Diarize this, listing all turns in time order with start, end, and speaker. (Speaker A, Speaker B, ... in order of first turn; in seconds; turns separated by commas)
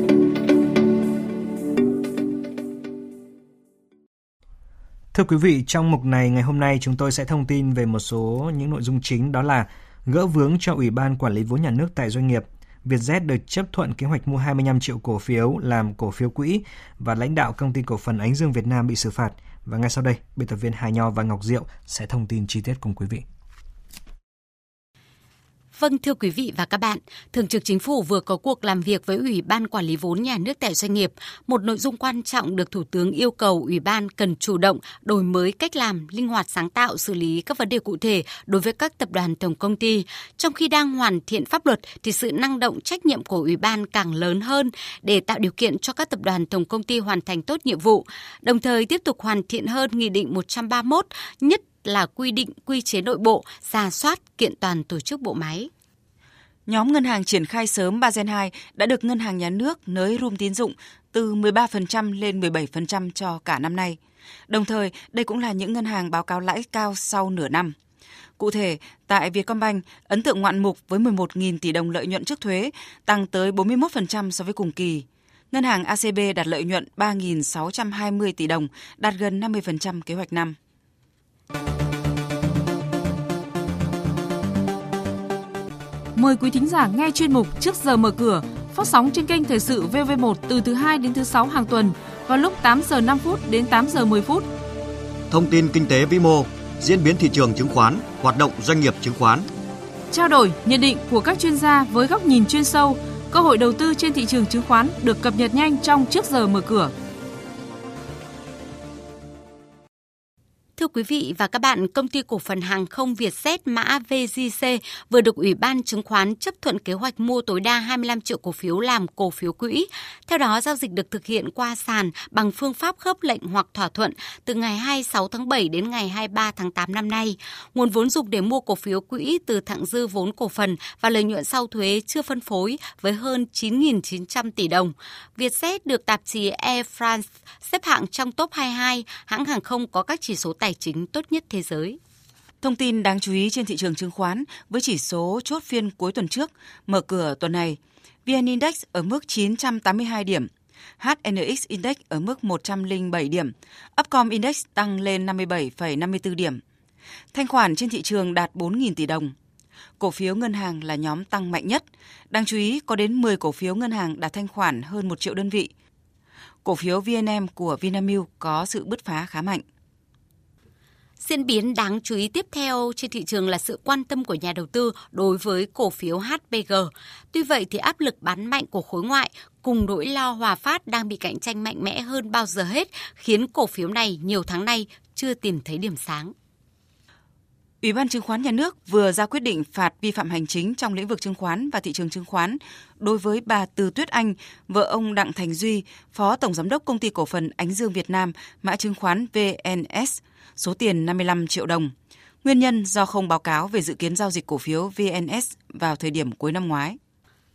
Speaker A: 5.1-23.2, Speaker B: 25.7-55.7, Speaker C: 56.7-67.7, Speaker C: 68.4-80.5, Speaker D: 86.1-94.5, Speaker E: 95.3-99.5, Speaker D: 100.1-106.9, Speaker B: 110.8-142.0, Speaker C: 142.6-156.6, Speaker C: 157.3-159.3, Speaker C: 160.0-165.7, Speaker C: 166.6-169.6, Speaker B: 171.2-186.3, Speaker C: 187.8-207.0